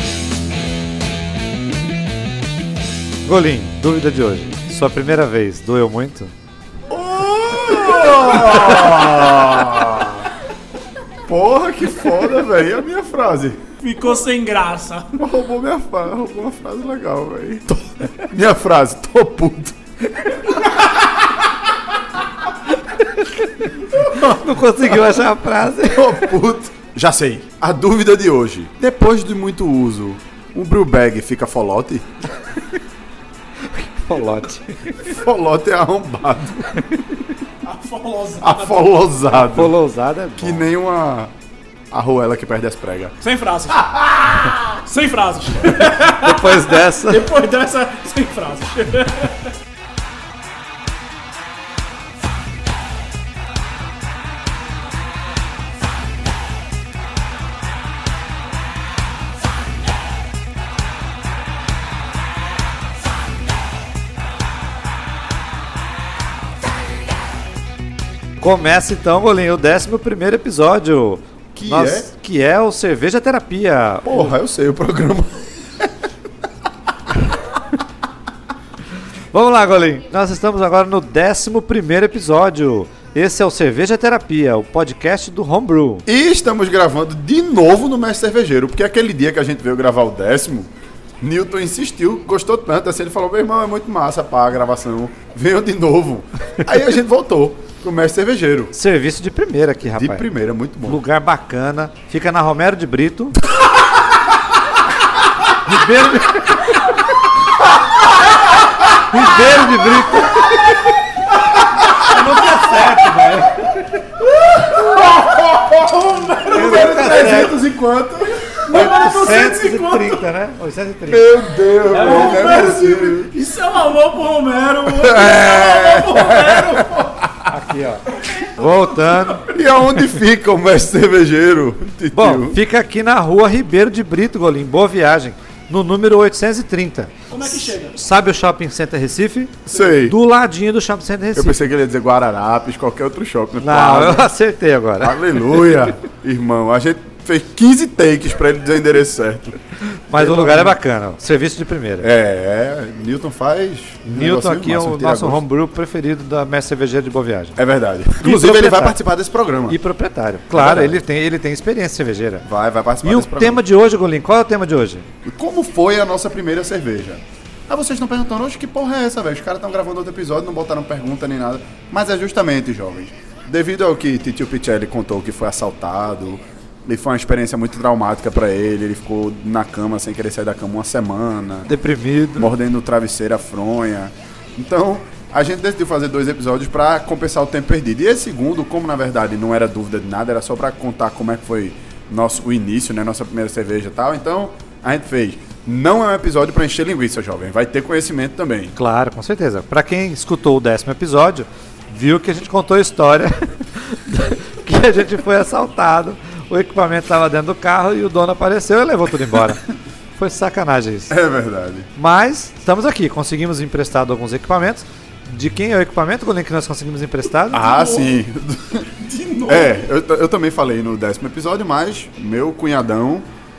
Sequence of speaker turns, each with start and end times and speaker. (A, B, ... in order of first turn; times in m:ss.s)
0:03.2-0:06.3 A
0:06.9-0:10.3 B
0:11.3-0:13.6 B
0:13.8-0:15.2 C
0:15.2-0:19.8 B
0:24.0-0:24.4 B
0:24.0-0:26.3 A
0:25.8-0:32.1 B
0:33.7-0:35.1 A
0:35.0-0:36.8 B
0:37.6-0:39.0 C
0:38.4-0:39.7 B
0:39.3-0:40.6 A
0:40.4-0:41.3 B
0:41.9-0:43.1 B
0:43.2-0:49.5 C
0:46.0-0:47.3 A
1:08.4-1:14.2 A
1:11.5-1:12.1 B
1:14.0-1:15.9 B
1:19.3-1:26.0 A
1:26.0-1:30.7 B
1:31.2-1:38.7 B
1:38.7-1:40.3 A
1:39.9-1:41.0 B
1:40.8-1:43.4 A
1:45.6-1:46.7 A
1:49.1-1:50.6 A
1:52.0-1:53.8 A
1:54.7-1:58.5 B
1:56.5-1:57.6 A
1:56.5-1:57.0 C
1:58.6-2:00.2 C
1:58.7-2:01.3 A
2:01.1-2:03.3 B
2:01.9-2:02.8 A
2:01.9-2:07.2 C
2:04.8-2:07.4 B
2:07.5-2:08.0 A
2:08.5-2:09.4 A
2:09.4-2:12.6 B
2:12.1-2:21.6 A
2:17.3-2:18.0 C
2:19.7-2:20.2 B
2:21.3-2:24.3 B
2:23.6-2:25.5 A
2:25.0-2:29.6 B
2:30.1-2:32.1 A
2:30.1-2:30.7 B
2:32.0-2:35.4 B
2:34.0-2:37.6 A
2:37.6-2:39.8 B
2:38.2-2:39.0 A
2:39.7-2:42.4 A
2:40.5-2:41.0 B
2:42.4-2:43.6 B
2:43.0-2:45.1 A
2:45.2-3:01.7 B
3:01.6-3:02.5 A
3:02.4-3:18.7 B
3:18.8-3:29.6 A
3:30.2-3:31.2 A
3:31.1-3:31.9 B
3:32.0-3:37.7 A
3:37.5-3:38.9 B
3:39.0-3:39.7 C
3:39.4-3:43.3 B